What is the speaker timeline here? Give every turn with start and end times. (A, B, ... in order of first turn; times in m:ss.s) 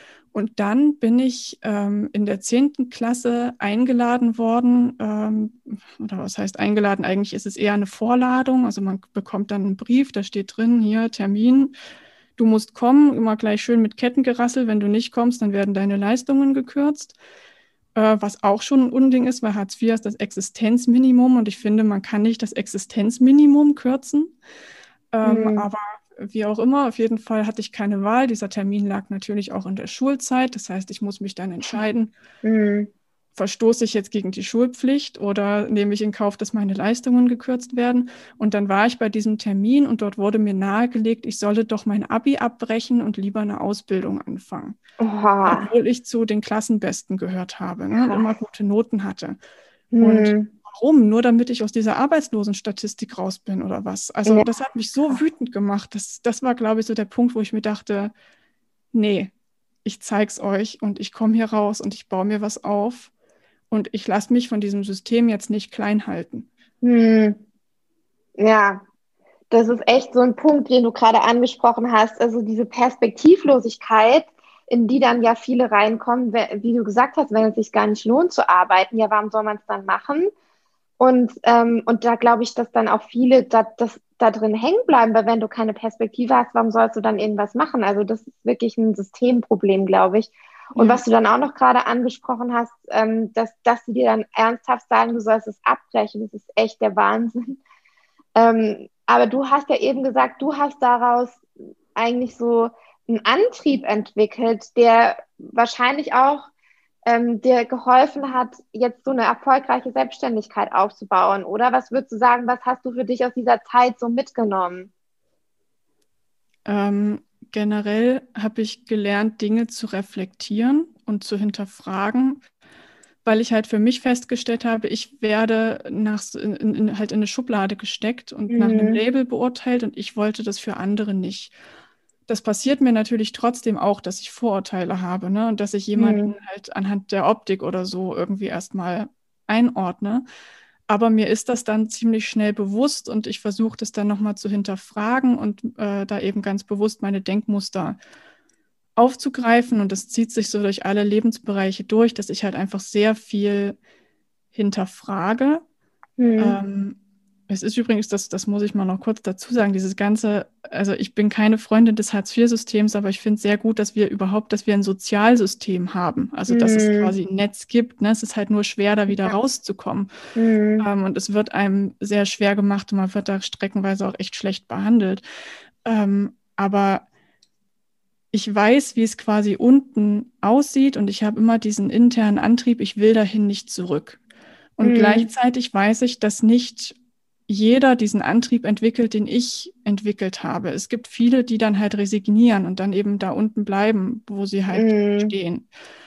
0:00.3-0:11.7 A
0:12.4-0:17.2 A
0:18.0-0:24.4 A
0:25.1-0:32.1 A
0:25.2-0:25.7 B
0:32.4-0:32.9 B
0:33.4-0:44.8 A
0:45.0-0:45.7 B
0:45.5-0:49.4 A
0:47.9-0:48.3 B
0:49.9-0:50.5 B
0:50.0-0:58.1 A
0:54.3-0:54.5 B
0:58.9-0:59.3 A
0:59.8-1:03.1 A
1:03.7-1:06.5 A
1:06.8-1:07.4 B
1:08.4-1:08.8 B
1:09.5-1:20.3 B
1:21.0-1:37.6 B
1:30.8-1:31.0 A
1:38.4-1:41.4 B
1:42.0-1:46.5 B
1:47.0-1:54.9 B
1:56.7-2:02.4 A
2:03.2-2:11.5 A
2:08.5-2:09.0 B
2:12.3-2:20.2 A
2:16.0-2:16.3 B
2:20.9-2:28.0 A
2:29.0-2:33.8 A
2:34.5-2:35.6 A
2:36.2-2:36.6 B
2:36.4-2:37.0 A
2:37.5-2:50.1 A
2:46.5-2:47.1 B
2:50.4-2:50.9 B
2:50.8-2:55.2 A
2:55.8-2:57.1 A
2:58.3-3:04.2 A
3:04.8-3:07.0 A
3:04.8-3:05.3 B
3:07.5-3:15.7 A
3:14.7-3:15.4 B